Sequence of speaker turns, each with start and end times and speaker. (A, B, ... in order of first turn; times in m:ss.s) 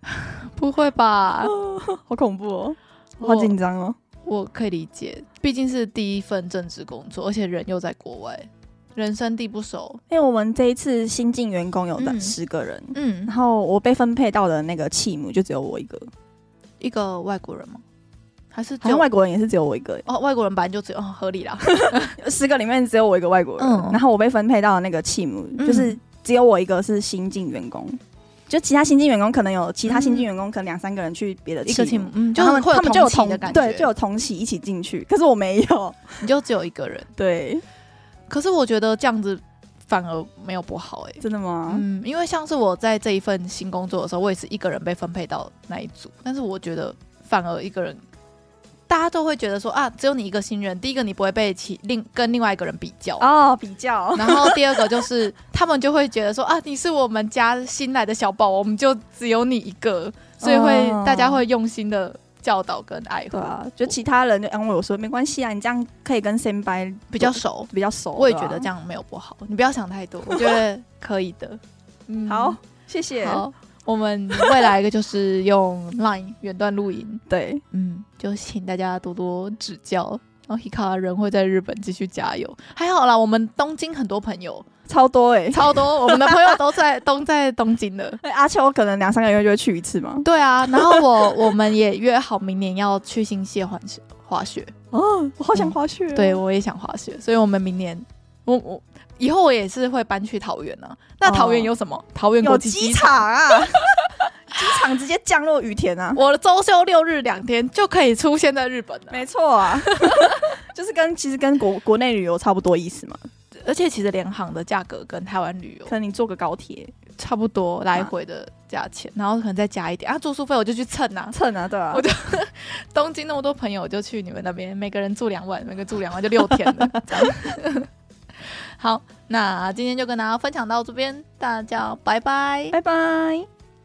0:00.2-0:01.5 A
0:01.4-0:04.0 B
0:03.2-0:03.5 A
0:04.2-0:10.0 A
0:10.1-0:16.1 B
0:12.0-0:12.3 A
0:12.9-0:13.3 A
0:16.8-0:17.8 A
0:18.5-0:19.1 A
0:18.8-0:20.0 B
0:20.0-0:22.2 A
0:21.7-0:36.2 B
0:23.6-0:24.0 A
0:25.6-0:26.0 A
0:29.8-0:30.3 A
0:31.6-0:33.9 A
0:36.2-0:37.1 A
0:37.2-0:37.6 B
0:38.3-0:48.0 A
0:41.2-0:41.8 B
0:48.9-0:53.2 A
0:53.2-0:54.9 B
0:54.1-1:03.9 A
1:00.4-1:01.4 B
1:03.3-1:08.7 B
1:07.1-1:12.6 A
1:10.3-1:10.6 B
1:12.3-1:13.4 B
1:13.2-1:24.7 A
1:14.4-1:14.7 B
1:17.3-1:17.6 B
1:24.9-1:26.6 B
1:25.5-1:28.2 A
1:28.2-1:31.3 B
1:30.2-1:34.7 A
1:34.9-1:36.4 B
1:35.5-1:44.2 A
1:41.2-1:41.7 B
1:42.4-1:46.2 B
1:46.1-1:49.2 A
1:49.1-1:53.2 B
1:49.8-1:50.5 A
1:53.6-1:55.9 A
1:55.9-1:56.9 B
1:57.2-2:01.4 A
2:01.3-2:02.0 B
2:01.9-2:07.9 A
2:06.6-2:07.5 B
2:08.5-2:12.8 A
2:12.7-2:13.5 B